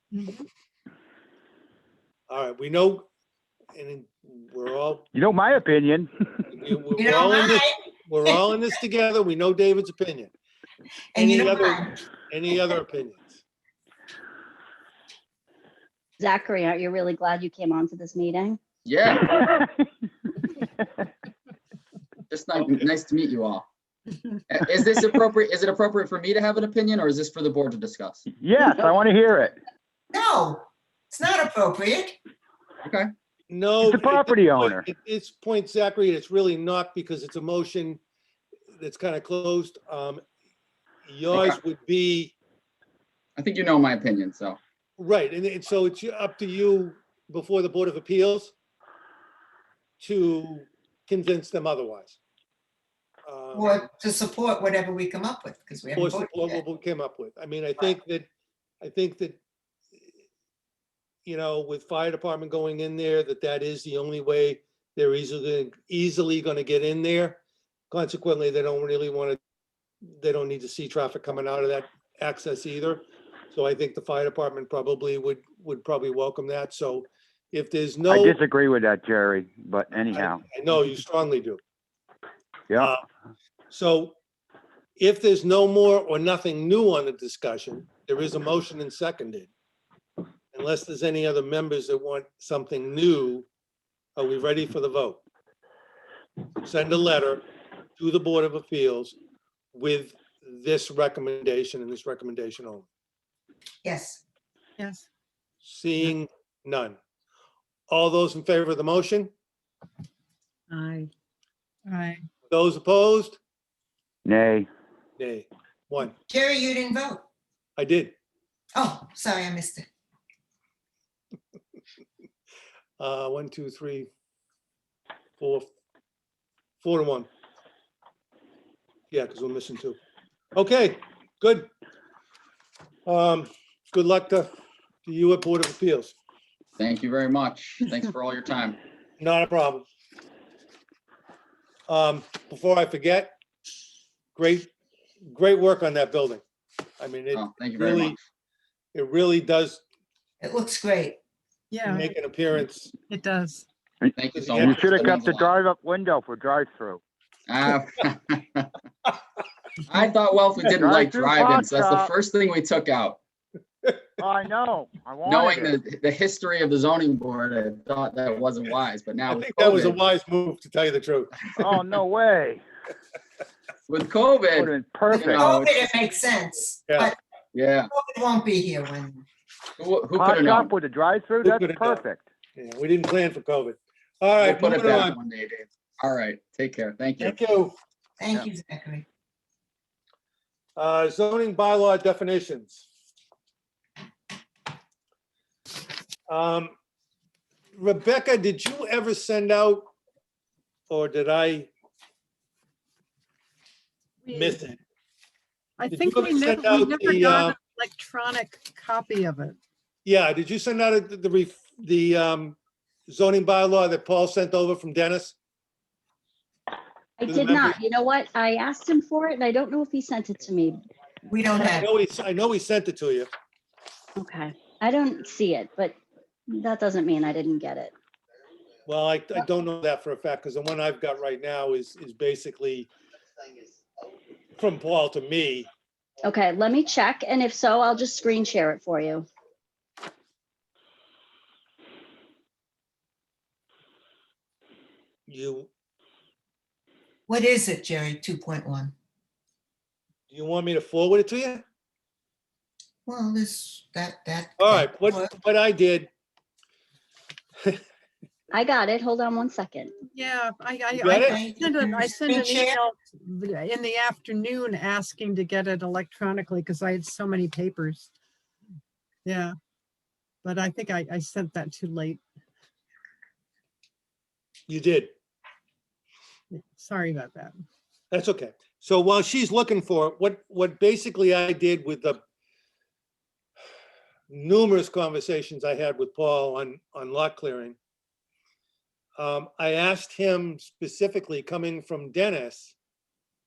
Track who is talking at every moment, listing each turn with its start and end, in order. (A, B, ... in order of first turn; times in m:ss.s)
0:00.1-0:00.4 A
0:02.3-0:03.1 B
0:03.8-0:05.1 B
0:05.1-0:06.1 C
0:06.5-0:10.3 B
0:07.0-0:08.4 D
0:11.1-0:12.0 D
0:11.2-0:13.4 B
0:16.2-0:18.6 E
0:18.8-0:19.3 F
0:19.2-0:19.9 C
0:22.3-0:23.7 F
0:24.5-0:28.2 F
0:28.3-0:29.6 C
0:28.6-0:28.9 E
0:30.1-0:32.2 D
0:32.8-0:33.1 F
0:33.5-0:38.0 B
0:33.8-0:34.9 C
0:38.7-0:40.2 B
0:41.0-0:42.4 B
0:41.3-0:41.6 F
0:43.4-0:44.6 F
0:45.0-0:48.5 B
0:50.0-0:52.2 B
0:53.3-0:53.9 B
0:53.5-0:56.6 D
0:56.0-0:58.3 B
0:58.8-0:59.4 B
1:01.2-1:09.4 B
1:10.1-1:18.4 B
1:18.1-1:20.4 C
1:20.1-1:21.6 B
1:22.8-1:23.0 B
1:23.7-1:24.2 B
1:25.0-1:29.5 B
1:30.5-1:33.5 B
1:34.2-1:35.2 B
1:36.6-1:37.4 B
1:38.0-1:39.2 B
1:39.7-1:42.9 B
1:43.8-1:44.2 D
1:44.8-1:45.1 A
1:45.6-1:47.0 B
1:47.9-1:49.3 B
1:50.7-1:51.1 A
1:51.9-1:52.3 A
1:52.5-1:53.4 B
1:54.2-1:54.7 C
1:55.2-1:56.2 B
1:56.3-1:57.2 D
1:57.8-1:58.2 B
1:58.8-1:59.9 D
2:03.0-2:04.1 B
2:05.4-2:05.7 B
2:06.8-2:07.3 B
2:09.1-2:10.0 B
2:10.6-2:11.7 B
2:13.1-2:16.2 B
2:16.8-2:18.8 F
2:19.2-2:19.8 B
2:21.9-2:23.3 B
2:24.4-2:24.7 B
2:25.3-2:26.4 B
2:27.0-2:28.2 B
2:27.3-2:28.2 F
2:28.9-2:29.8 B
2:30.4-2:31.2 D
2:31.7-2:32.1 A
2:31.8-2:32.9 B
2:33.1-2:33.7 A
2:34.0-2:37.0 C
2:34.2-2:35.5 F
2:34.3-2:35.2 B
2:37.5-2:38.7 F
2:39.9-2:43.2 F
2:40.7-2:42.1 C
2:44.2-2:45.8 C
2:45.2-2:50.0 F
2:49.3-2:51.7 B
2:51.6-2:52.6 C
2:53.9-2:55.9 F
2:54.5-2:55.5 C
2:55.1-2:57.2 D
2:57.5-2:57.9 F
2:57.9-2:59.2 D
2:59.8-3:00.7 F
3:00.2-3:02.2 C
3:01.4-3:02.0 B
3:02.6-3:05.2 B
3:04.4-3:07.4 F
3:07.2-3:07.8 B
3:08.2-3:09.0 D
3:10.8-3:12.8 B
3:16.3-3:16.7 B
3:17.8-3:19.9 B
3:20.9-3:21.7 B
3:24.2-3:24.6 A
3:24.3-3:24.8 B
3:25.8-3:29.6 A
3:25.9-3:27.6 B
3:30.0-3:32.6 B
3:33.1-3:35.4 B
3:37.2-3:40.8 E
3:37.3-3:37.8 B
3:41.3-3:41.9 D
3:41.6-3:43.3 B
3:44.2-3:46.0 E
3:46.5-3:47.9 E
3:48.9-3:52.9 B
3:54.6-3:55.7 B
3:56.3-3:59.3 E
4:05.3-4:05.7 B
4:07.3-4:08.9 D
4:10.3-4:11.6 B
4:13.1-4:15.3 D
4:14.6-4:16.1 B
4:18.5-4:19.9 E
4:20.1-4:28.1 A
4:21.0-4:21.4 B
4:21.1-4:22.8 D
4:29.2-4:29.5 A
4:30.4-4:32.2 A
4:34.7-4:35.1 B
4:36.5-4:37.6 A
4:38.1-4:42.2 B
4:44.3-4:47.8 B
4:49.2-4:52.8 B